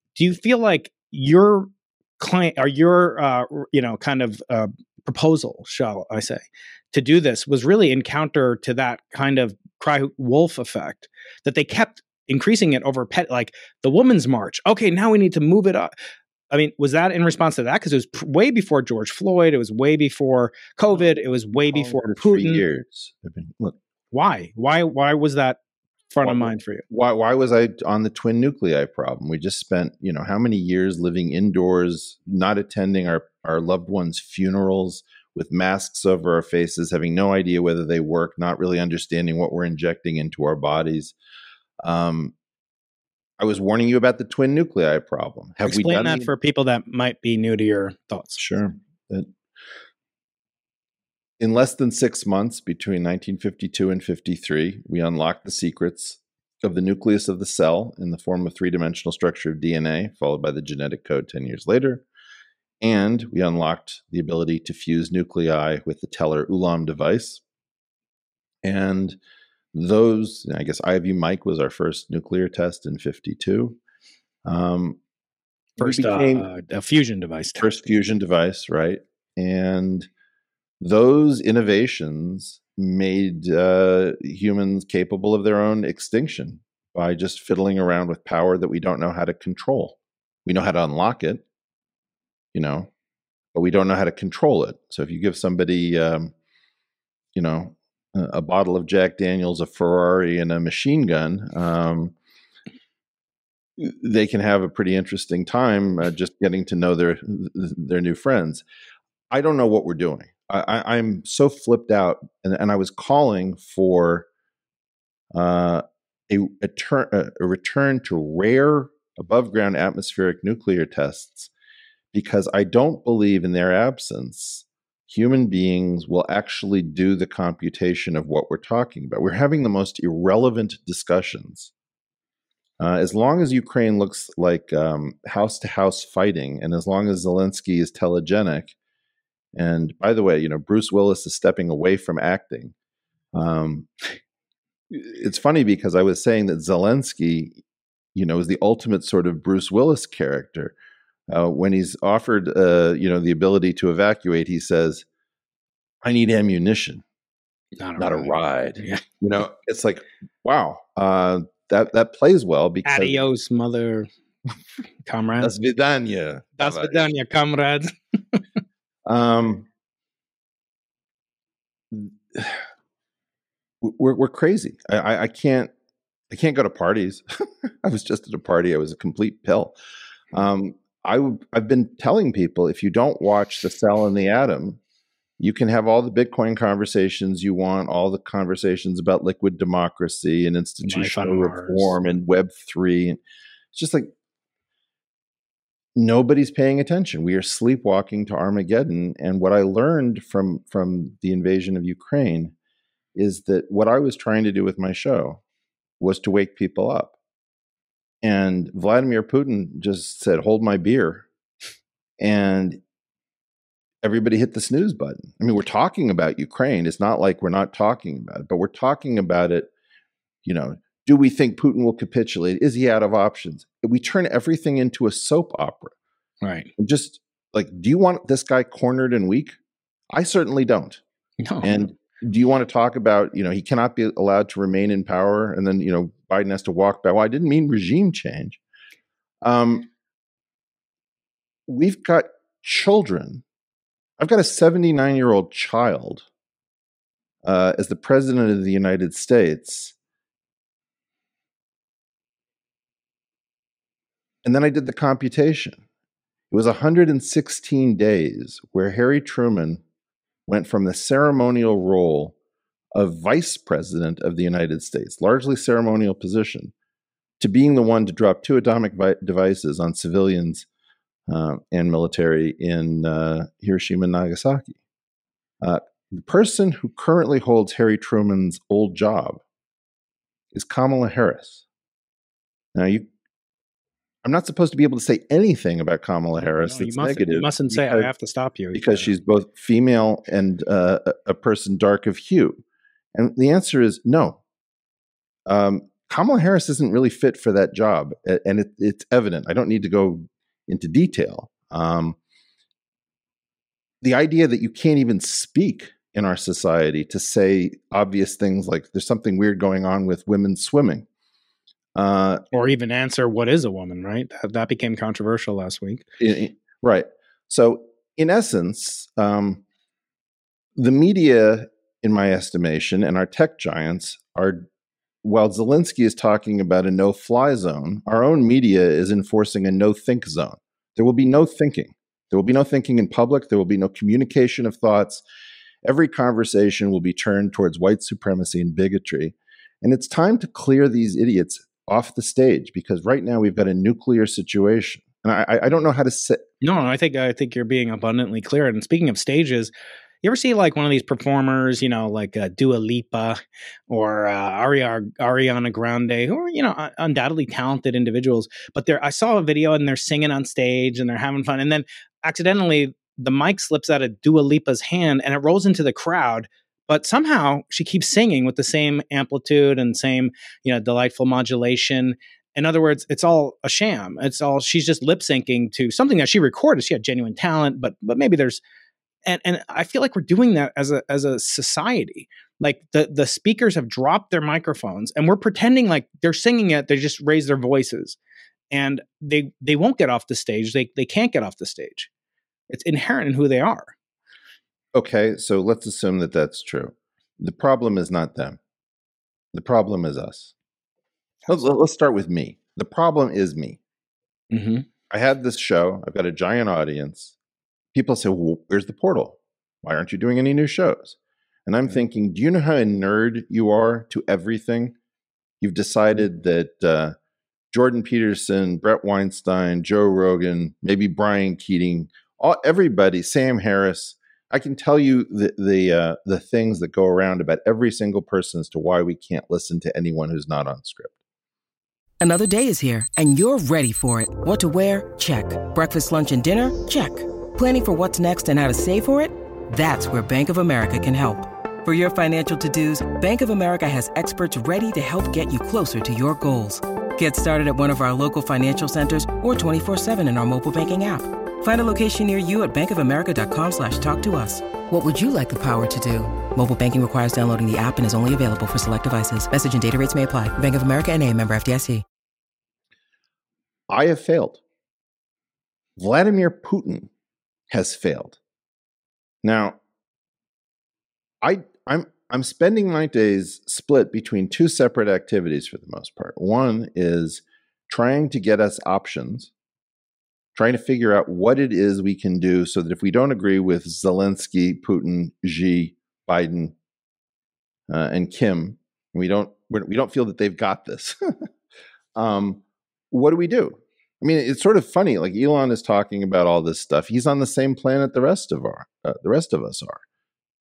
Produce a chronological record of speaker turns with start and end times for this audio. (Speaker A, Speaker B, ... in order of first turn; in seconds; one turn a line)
Speaker A: 0.2-15.9
Speaker A: 16.5-22.6
Speaker B: 21.7-23.8
Speaker A: 24.1-25.6
Speaker A: 26.1-26.9
Speaker B: 26.2-41.1
Speaker B: 41.8-42.3
Speaker B: 43.4-46.3
Speaker A: 45.6-48.4
Speaker B: 48.4-49.3
Speaker B: 51.4-62.0
Speaker B: 62.8-67.4
Speaker B: 68.6-69.2
Speaker B: 69.7-73.8
Speaker B: 74.5-75.0
Speaker B: 75.8-76.5
Speaker A: 75.8-77.9
Speaker B: 77.6-80.1
Speaker B: 80.8-91.4
Speaker B: 92.5-92.9
Speaker B: 93.5-96.3
Speaker B: 97.3-102.2
Speaker B: 103.8-108.6
Speaker B: 109.3-114.3
Speaker B: 115.3-121.5
Speaker B: 122.1-131.7
Speaker B: 132.8-138.8
Speaker B: 139.6-142.7
Speaker B: 143.3-143.9
Speaker B: 144.9-147.6
Speaker B: 148.2-150.7
Speaker B: 151.3-155.1
Speaker B: 156.0-157.0
Speaker A: 157.8-159.0
Speaker B: 158.0-163.2
Speaker A: 162.8-164.1
Speaker A: 165.1-165.5
Speaker B: 165.4-167.1
Speaker A: 166.6-168.4
Speaker B: 169.1-169.7
Speaker B: 171.9-172.7
Speaker B: 173.8-175.7
Speaker B: 176.3-179.8
Speaker B: 180.3-184.8
Speaker B: 185.4-193.2
Speaker A: 190.8-191.9
Speaker B: 193.7-194.1
Speaker B: 196.0-202.5
Speaker B: 203.2-205.4
Speaker B: 206.0-207.1
Speaker B: 208.2-211.3
Speaker B: 212.2-212.8
Speaker B: 214.0-219.7
Speaker B: 220.4-225.9
Speaker A: 226.4-226.7
Speaker B: 226.8-229.6
Speaker B: 230.1-231.0
Speaker A: 231.4-231.8
Speaker B: 231.6-238.6
Speaker B: 239.4-239.9
Speaker B: 241.7-243.4
Speaker B: 244.2-246.3
Speaker B: 247.4-249.9
Speaker B: 254.4-255.8
Speaker B: 256.5-259.8
Speaker B: 260.5-262.4
Speaker B: 262.9-266.7
Speaker B: 267.4-270.7
Speaker B: 271.3-274.8
Speaker B: 275.6-279.4
Speaker B: 280.5-281.6
Speaker B: 282.7-283.1
Speaker B: 284.2-288.1
Speaker A: 286.6-289.1
Speaker B: 288.7-292.6
Speaker B: 293.1-294.4
Speaker B: 295.5-302.2
Speaker B: 304.0-311.1
Speaker B: 311.9-312.4
Speaker A: 312.5-316.1
Speaker B: 316.2-319.6
Speaker B: 320.8-324.7
Speaker B: 325.2-335.2
Speaker B: 335.8-346.4
Speaker A: 346.6-349.7
Speaker A: 350.2-378.6
Speaker A: 379.2-388.2
Speaker A: 388.7-392.1
Speaker A: 392.7-393.9
Speaker B: 394.9-398.6
Speaker B: 399.5-400.5
Speaker B: 401.5-403.8
Speaker A: 404.5-404.9
Speaker B: 405.1-407.3
Speaker B: 407.9-415.0
Speaker B: 415.6-417.1
Speaker B: 417.7-431.2
Speaker C: 432.2-462.0
Speaker B: 463.9-464.6
Speaker B: 466.0-467.1
Speaker B: 467.7-468.4
Speaker B: 469.4-469.8
Speaker B: 471.4-479.5
Speaker B: 480.6-486.8
Speaker B: 487.9-491.5
Speaker B: 492.1-500.0